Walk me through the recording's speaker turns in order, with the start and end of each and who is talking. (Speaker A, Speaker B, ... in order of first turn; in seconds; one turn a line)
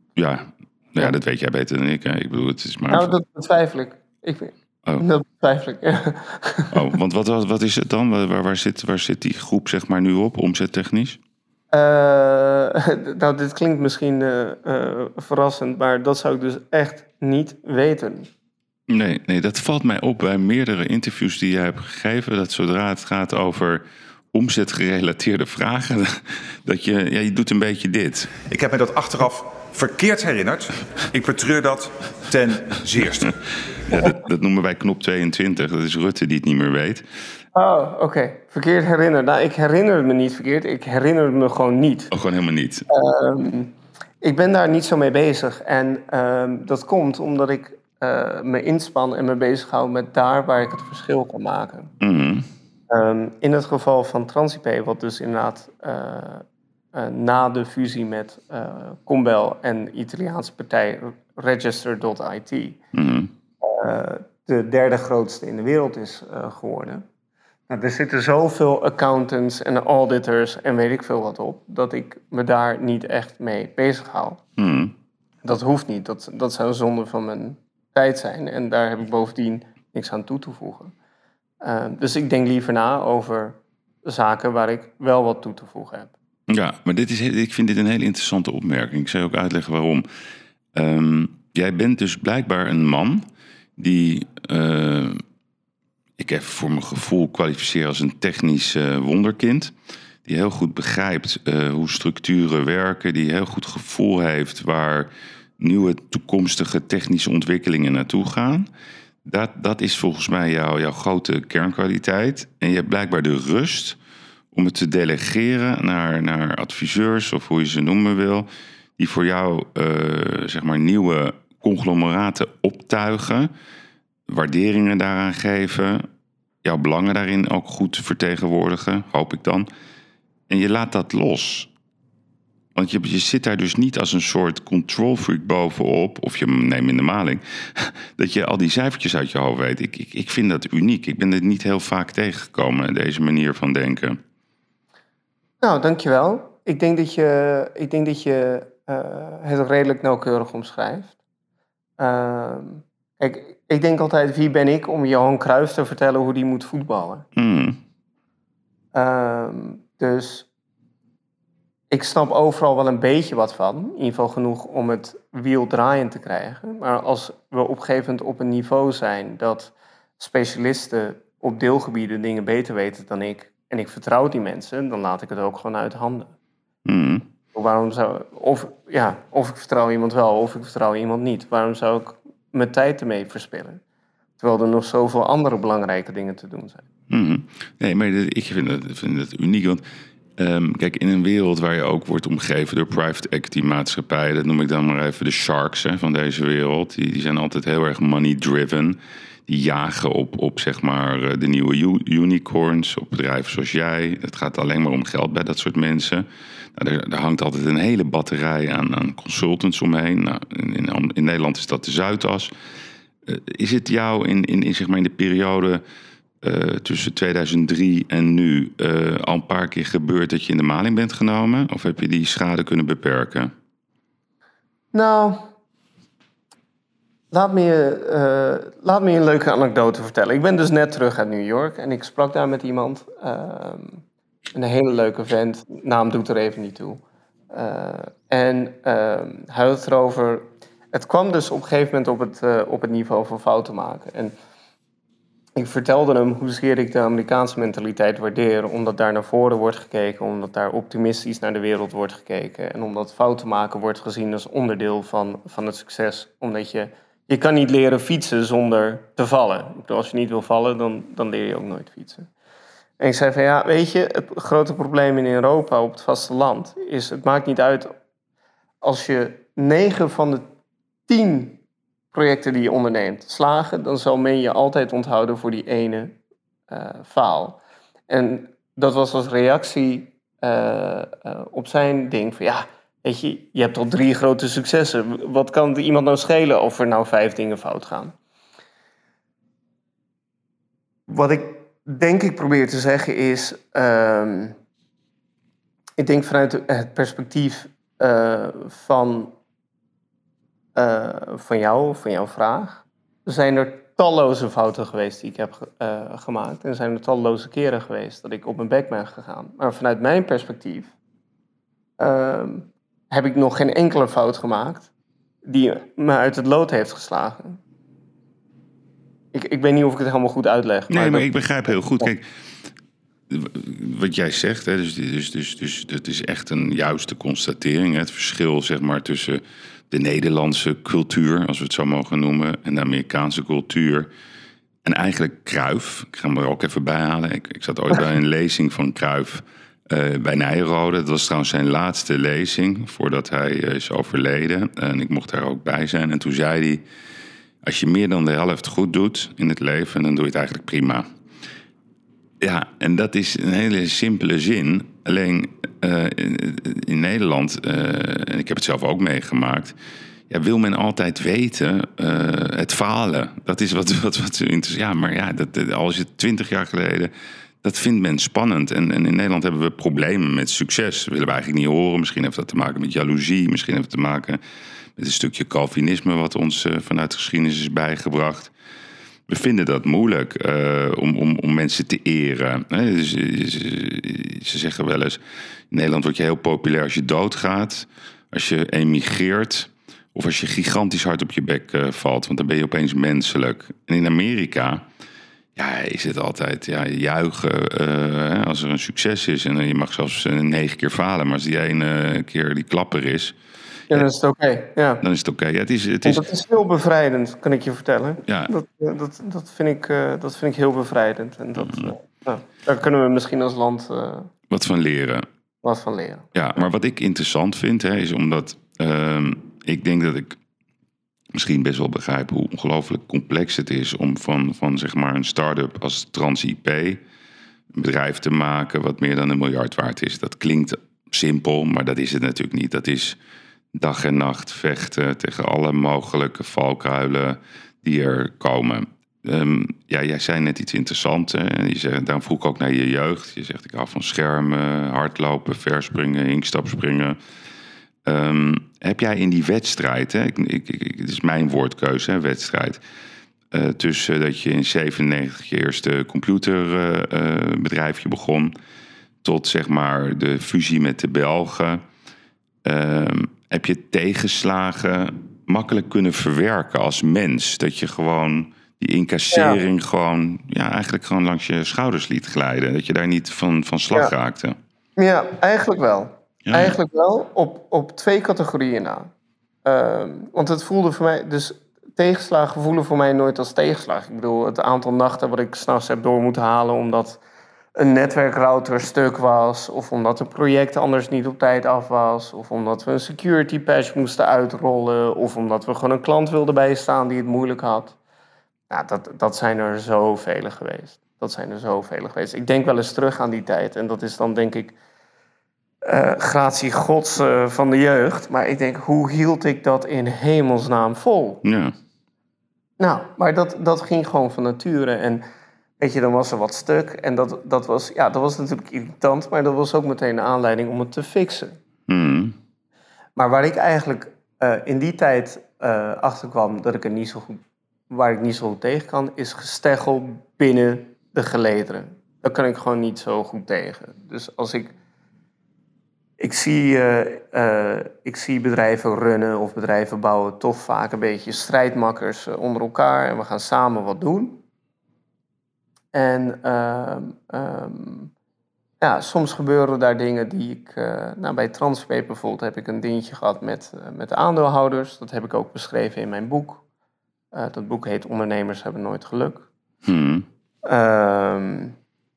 Speaker A: 0.2-3.1
Speaker B: 2.9-6.8
Speaker A: 6.7-11.2
Speaker B: 11.7-18.3
Speaker A: 18.9-28.4
Speaker C: 28.5-33.4
Speaker A: 33.9-37.0
Speaker B: 37.5-42.1
Speaker A: 42.1-42.9
Speaker B: 42.9-51.9
Speaker A: 52.0-52.5
Speaker B: 52.9-62.8
Speaker A: 62.9-63.3
Speaker B: 63.6-67.0
Speaker B: 67.7-74.4
Speaker A: 74.6-74.9
Speaker B: 75.4-80.9
Speaker B: 81.6-86.1
Speaker A: 86.5-90.0
Speaker A: 90.7-93.3
Speaker A: 93.8-95.2
Speaker A: 96.2-99.7
Speaker A: 100.3-108.7
Speaker A: 109.2-114.0
Speaker A: 114.5-123.5
Speaker A: 124.3-126.1
Speaker A: 126.6-129.7
Speaker A: 130.5-131.7
Speaker A: 132.8-144.2
Speaker B: 145.6-151.2
Speaker B: 152.0-157.2
Speaker A: 157.4-157.8
Speaker B: 158.9-160.5
Speaker B: 161.9-176.3
Speaker A: 176.9-177.3
Speaker B: 177.5-183.8
Speaker B: 184.4-186.8
Speaker A: 187.1-189.8
Speaker A: 190.4-212.5
Speaker A: 213.3-215.8
Speaker A: 216.4-223.5
Speaker B: 224.9-225.5
Speaker B: 227.3-234.0
Speaker B: 234.5-244.3
Speaker B: 245.6-262.3
Speaker B: 263.0-267.9
Speaker B: 268.8-270.4
Speaker B: 271.1-271.6
Speaker B: 272.1-276.2
Speaker B: 276.7-288.1
Speaker B: 291.1-294.6
Speaker B: 296.0-299.3
Speaker B: 300.8-310.9
Speaker B: 312.0-314.9
Speaker B: 315.4-317.6
Speaker B: 319.3-321.3
Speaker A: 320.9-322.3
Speaker A: 323.3-334.1
Speaker A: 334.8-346.8
Speaker A: 347.6-351.1
Speaker A: 352.4-359.8
Speaker A: 360.3-374.4
Speaker A: 375.0-378.5
Speaker A: 379.3-385.2
Speaker A: 385.7-394.9
Speaker A: 395.6-403.4
Speaker B: 403.9-405.0
Speaker A: 405.0-406.2
Speaker B: 406.1-414.3
Speaker A: 408.3-408.5
Speaker A: 411.6-411.9
Speaker A: 414.5-415.3
Speaker B: 415.6-416.3
Speaker A: 416.3-420.4
Speaker A: 421.3-427.0
Speaker A: 427.7-433.2
Speaker A: 433.7-447.2
Speaker A: 448.1-452.8
Speaker A: 453.5-458.5
Speaker A: 459.2-461.8
Speaker A: 462.6-474.6
Speaker B: 469.3-469.6
Speaker B: 475.0-479.1
Speaker A: 476.5-476.8
Speaker B: 479.6-487.2
Speaker B: 487.8-498.0
Speaker B: 498.7-504.8
Speaker B: 505.8-511.4
Speaker A: 511.4-511.7
Speaker B: 512.8-515.2
Speaker B: 515.8-521.6
Speaker A: 521.9-522.4
Speaker B: 523.2-534.7
Speaker B: 536.2-544.4
Speaker B: 545.9-548.1
Speaker B: 548.8-556.6
Speaker B: 557.3-559.5
Speaker A: 559.9-560.3
Speaker B: 560.6-561.8